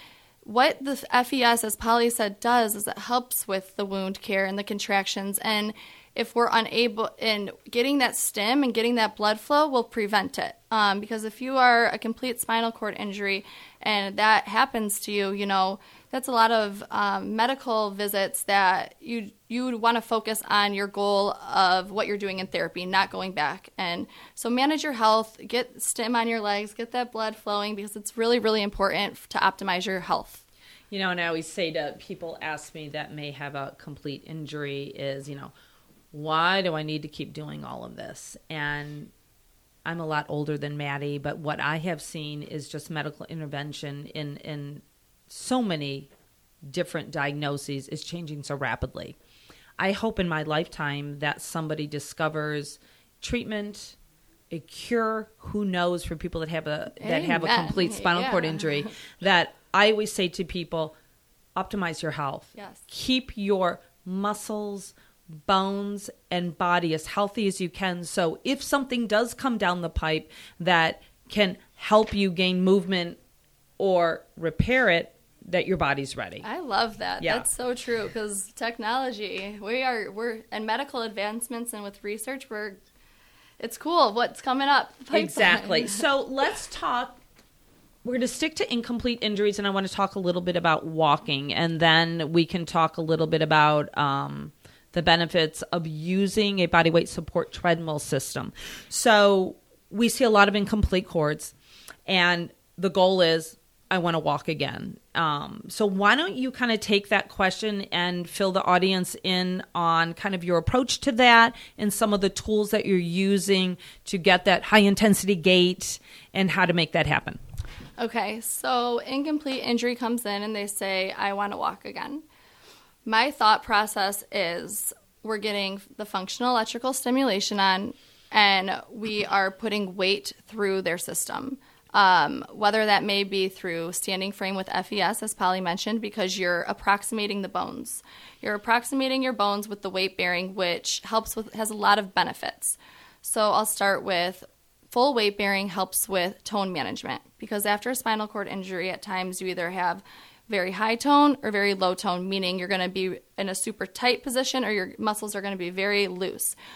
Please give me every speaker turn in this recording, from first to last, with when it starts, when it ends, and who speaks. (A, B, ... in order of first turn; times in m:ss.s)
0:00.4-0:30.4 A
0:30.9-0:35.5 B
0:36.1-0:39.1 B
0:39.8-0:46.1 B
0:46.6-0:49.2 B
0:49.8-0:54.0 B
0:54.5-1:00.9 B
0:57.0-0:58.9 A
1:01.5-1:04.9 B
1:02.5-1:02.8 A
1:05.4-1:13.2 B
1:13.8-1:16.4 B
1:16.4-1:22.8 A
1:17.2-1:17.4 B
1:23.6-1:26.0 A
1:25.1-1:27.2 B
1:28.0-1:41.5 B
1:42.1-1:57.4 B
1:58.0-2:02.2 A
2:03.0-2:36.6 A